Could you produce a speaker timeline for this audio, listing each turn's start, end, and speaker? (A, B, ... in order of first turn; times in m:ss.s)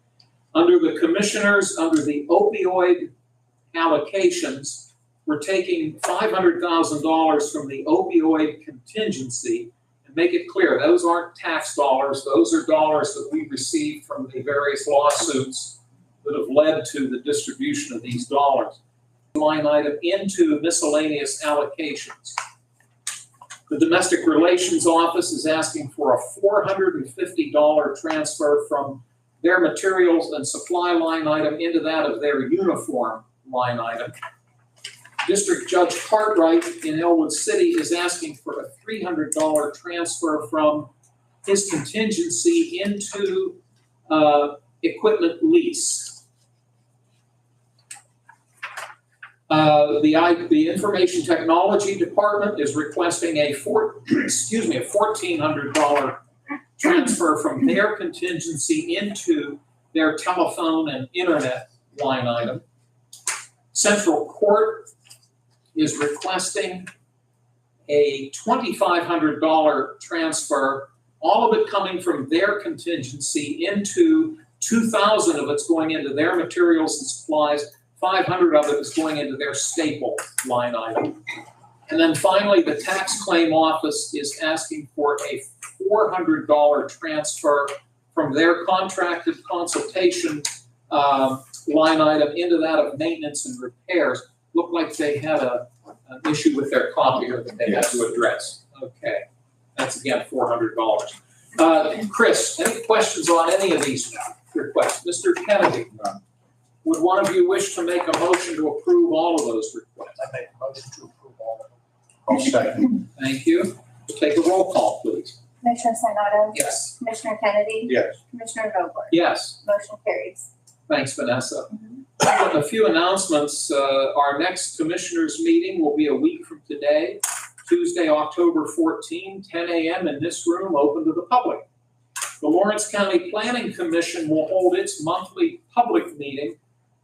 0:00.5-0:03.1 A
0:03.7-0:18.8 A
0:19.3-0:22.4 A
0:23.7-0:34.2 A
0:35.2-0:40.9 A
0:41.4-0:46.2 A
0:49.5-0:56.2 A
0:56.8-1:02.6 A
1:03.7-1:04.9 A
1:05.7-1:06.9 A
1:07.9-1:21.2 A
1:21.9-1:45.9 A
1:37.6-1:38.0 B
1:45.9-1:46.2 B
1:46.8-1:50.2 A
1:50.2-1:51.8 B
1:52.3-1:52.9 B
1:53.1-1:55.4 A
1:55.6-2:00.5 C
1:56.5-1:56.9 A
1:57.9-1:58.1 B
1:59.1-1:59.6 A
2:00.9-2:11.6 A
2:12.4-2:16.6 A